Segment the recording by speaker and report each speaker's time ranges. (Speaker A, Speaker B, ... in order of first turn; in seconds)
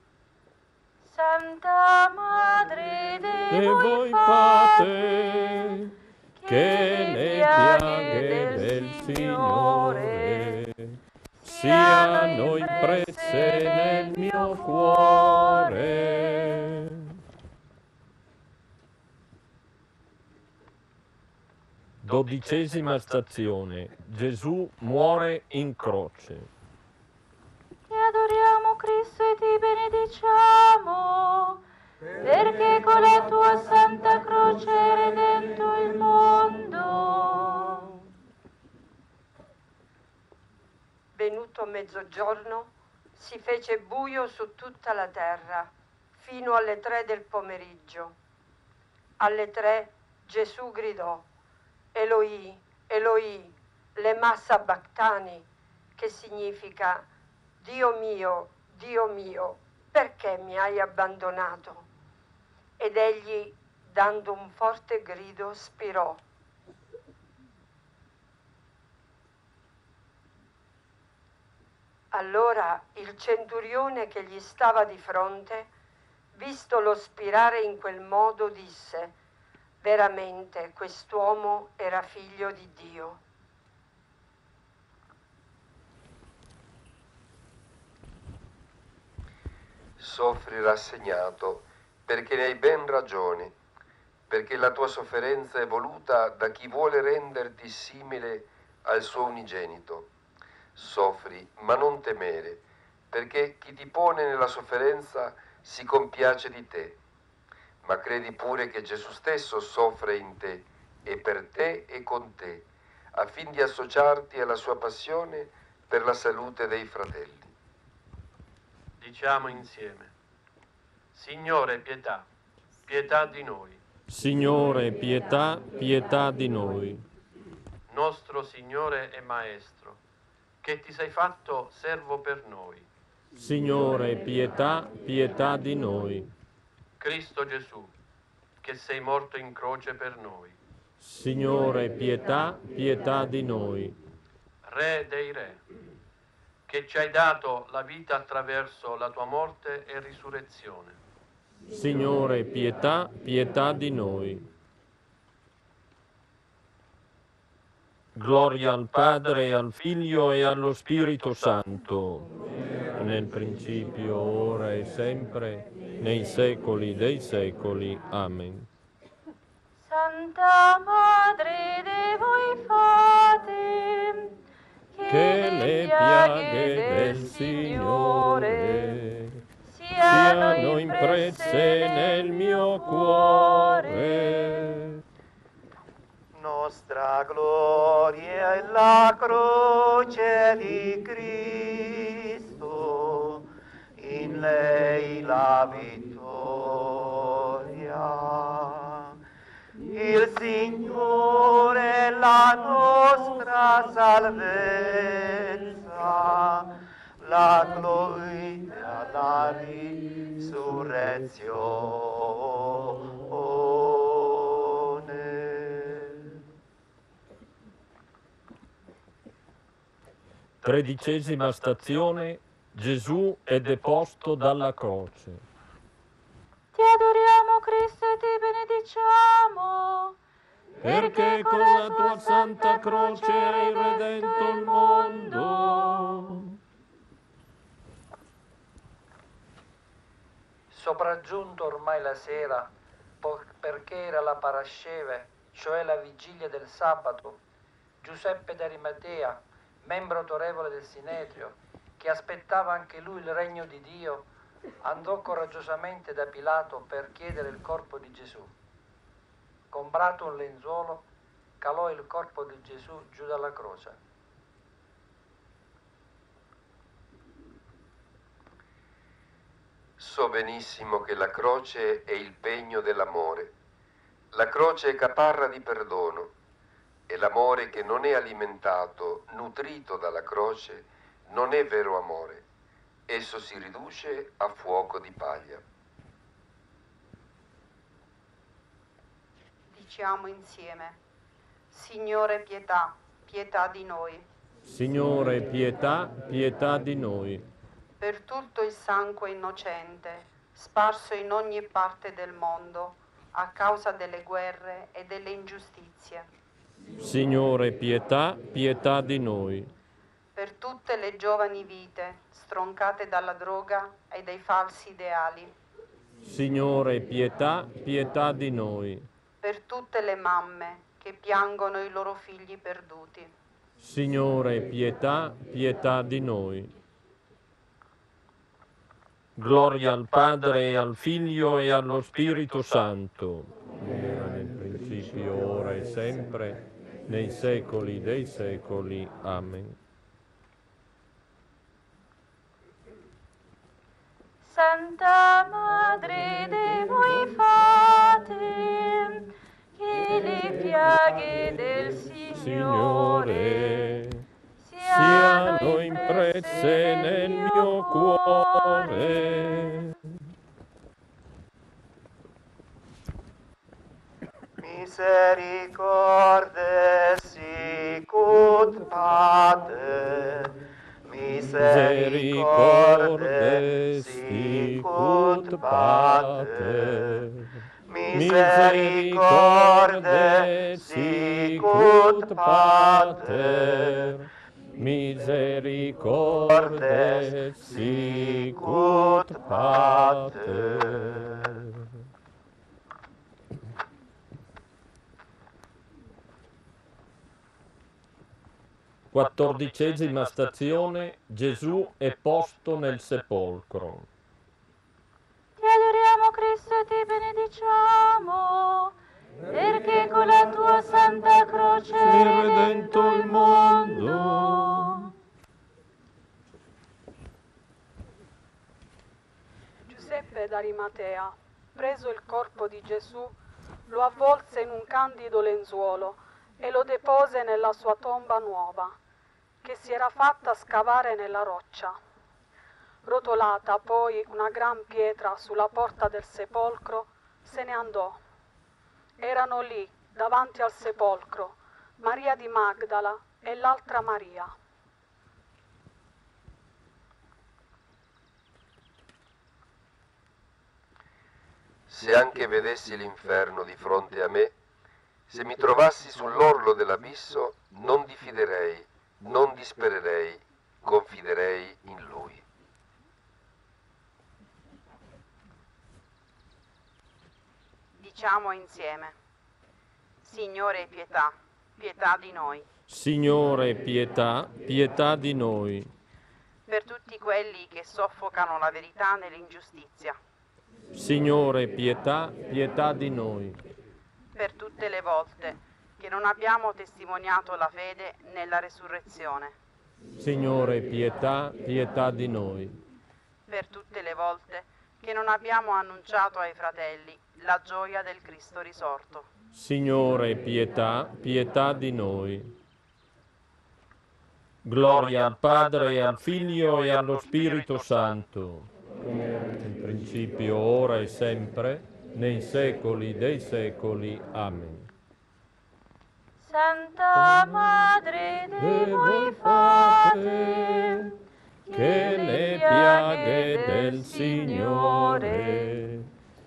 Speaker A: 1.0-5.5, 6.4-10.5, 11.4-15.8, 27.9-31.6, 32.2-37.8, 169.8-174.3, 174.9-178.9, 179.6-183.9, 226.7-230.2, 230.8-235.9, 344.4-353.7, 354.6-358.9, 405.6-409.0, 409.5-414.9, 516.4-520.4, 521.7-525.7
Speaker B: 3.5-5.9, 6.5-17.1, 22.0-26.5, 124.1-127.0, 133.3-136.3, 141.0-144.0, 151.7-154.5, 158.1-162.3, 162.9-168.7, 175.1-179.4, 180.0-185.0, 220.6-225.4, 230.8-236.5, 294.6-297.5, 307.0-309.7, 316.2-319.1, 323.8-326.7, 329.4-339.8, 352.3-354.2, 354.8-360.0, 371.6-377.5, 378.1-384.3, 384.8-391.5, 399.1-404.1, 412.0-415.1, 472.9-475.9, 480.9-483.6, 490.2-492.8, 499.5-502.5, 504.6-508.7, 509.6-514.9, 517.2-517.6, 518.6-521.1, 521.7-526.1
Speaker C: 41.1-48.1, 49.2-51.2, 51.9-57.0, 57.6-61.9, 62.8-66.2, 72.1-75.7, 76.3-79.1, 79.8-83.2
Speaker D: 90.0-93.5, 94.3-100.1, 100.7-107.0, 107.8-117.5, 270.0-273.5, 274.3-276.3, 277.1-282.4, 283.1-285.6, 451.9-454.5, 455.3-462.4
Speaker E: 119.0-120.1, 121.1-122.3, 122.8-123.8, 127.9-130.0, 130.6-132.9, 137.0-137.9, 138.6-140.6, 144.6-145.6, 146.7-151.0
Speaker F: 186.3-193.5, 194.0-199.1, 199.9-216.3, 364.6-370.5, 371.1-377.2, 377.9-384.1, 386.3-391.5
Speaker G: 240.7-242.7, 243.2-247.4, 248.0-254.2, 254.8-258.5, 259.7-261.1, 261.6-264.0
Speaker H: 289.7-291.0, 291.7-294.3, 298.0-306.3, 310.4-315.5, 319.4-323.3, 468.0-469.1, 470.2-472.6, 476.7-480.2, 484.4-489.5, 493.5-499.2
Speaker I: 419.9-423.3, 423.9-428.9, 429.6-431.9, 433.0-438.2, 439.2-444.5